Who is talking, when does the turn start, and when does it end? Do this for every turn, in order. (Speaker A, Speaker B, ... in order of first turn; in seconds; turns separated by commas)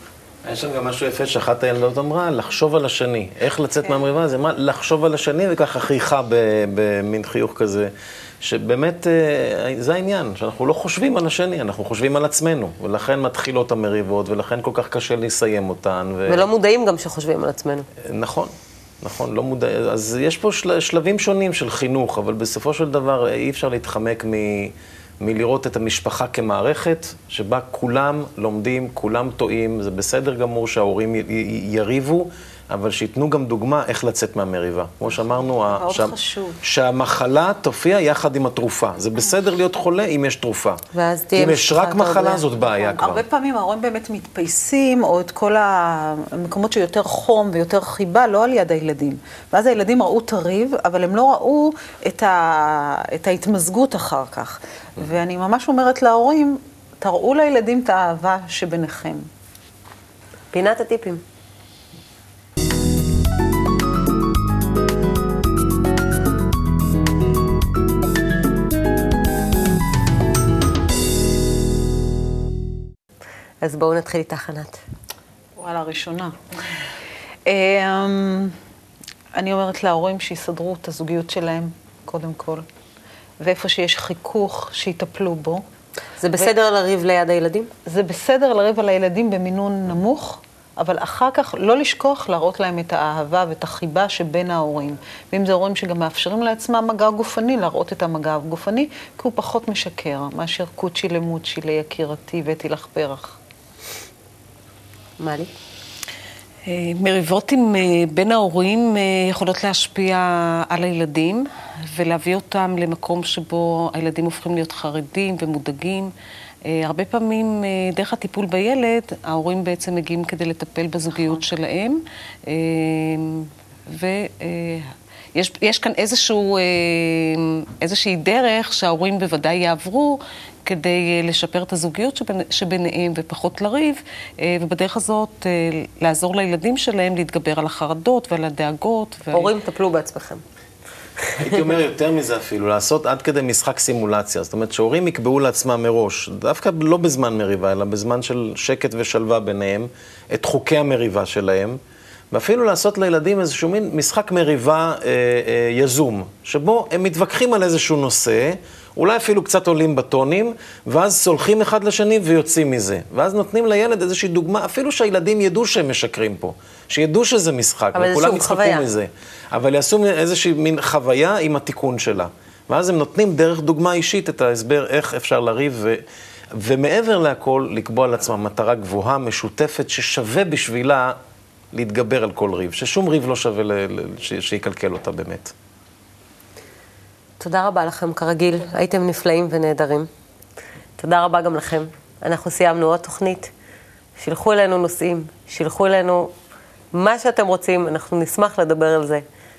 Speaker A: 0.5-16.5, Speaker B: 16.3-17.9, Speaker A: 18.0-40.8, Speaker C: 35.3-36.6, Speaker B: 40.9-42.4, Speaker A: 41.3-43.2, Speaker C: 42.6-59.3, Speaker B: 60.5-61.2, Speaker B: 73.6-74.8, Speaker C: 75.6-76.4, Speaker C: 77.5-78.6, Speaker C: 79.4-82.7, Speaker C: 83.4-85.6, Speaker B: 86.2-87.7, Speaker C: 87.9-103.4, Speaker B: 105.2-105.5, Speaker D: 106.7-116.1, Speaker D: 116.7-139.5, Speaker B: 139.3-140.4, Speaker B: 141.2-141.6, Speaker A: 141.4-151.8, Speaker A: 152.3-176.0, Speaker B: 167.9-168.9, Speaker A: 176.6-181.2, Speaker A: 181.7-185.5, Speaker B: 187.4-190.1, Speaker B: 191.0-193.5, Speaker B: 194.2-196.3, Speaker B: 196.9-199.2